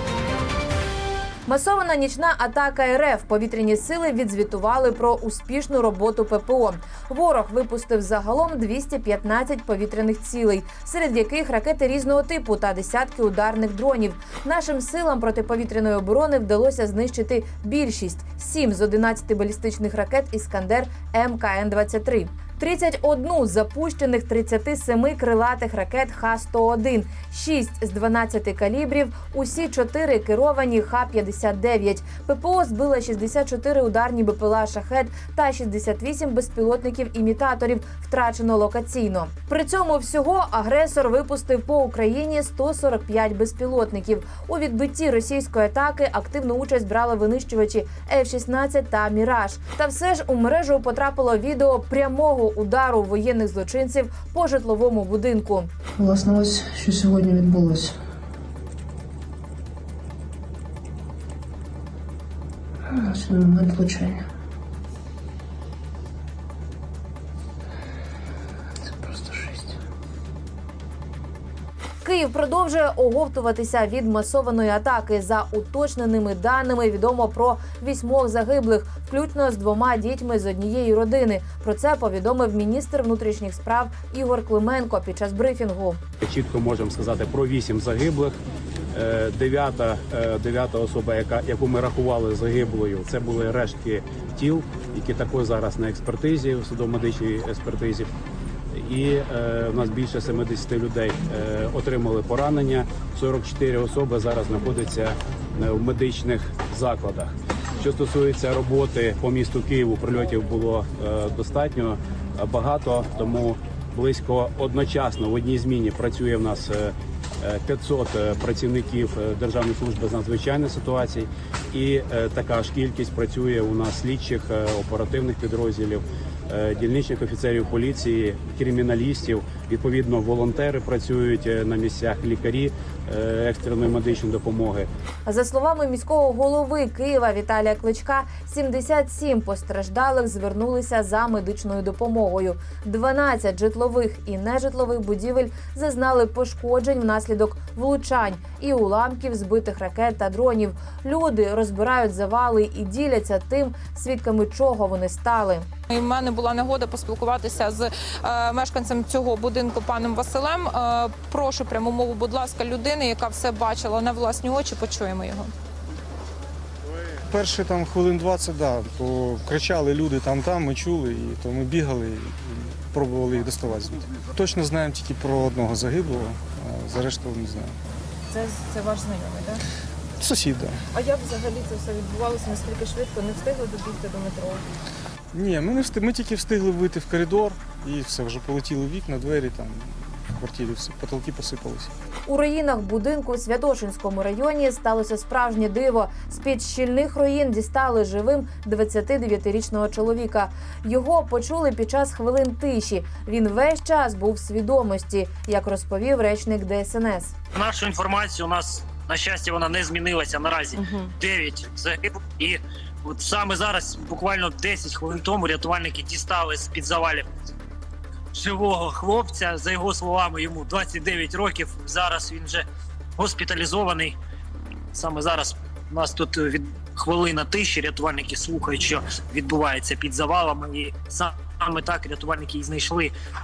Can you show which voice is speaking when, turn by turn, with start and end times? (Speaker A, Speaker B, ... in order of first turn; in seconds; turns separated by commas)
Speaker A: 1.5-55.7, Speaker B: 56.0-57.9, Speaker B: 62.9-64.2, Speaker B: 69.0-69.7, Speaker A: 72.0-86.0, Speaker C: 86.2-88.4, Speaker C: 88.9-98.1, Speaker C: 98.7-134.9, Speaker A: 135.3-155.7, Speaker D: 155.9-165.5, Speaker E: 167.3-177.7, Speaker E: 180.2-180.8, Speaker E: 185.3-191.9, Speaker A: 192.3-207.3, Speaker F: 207.6-217.2, Speaker F: 218.3-222.6, Speaker F: 223.2-224.2, Speaker F: 224.9-233.1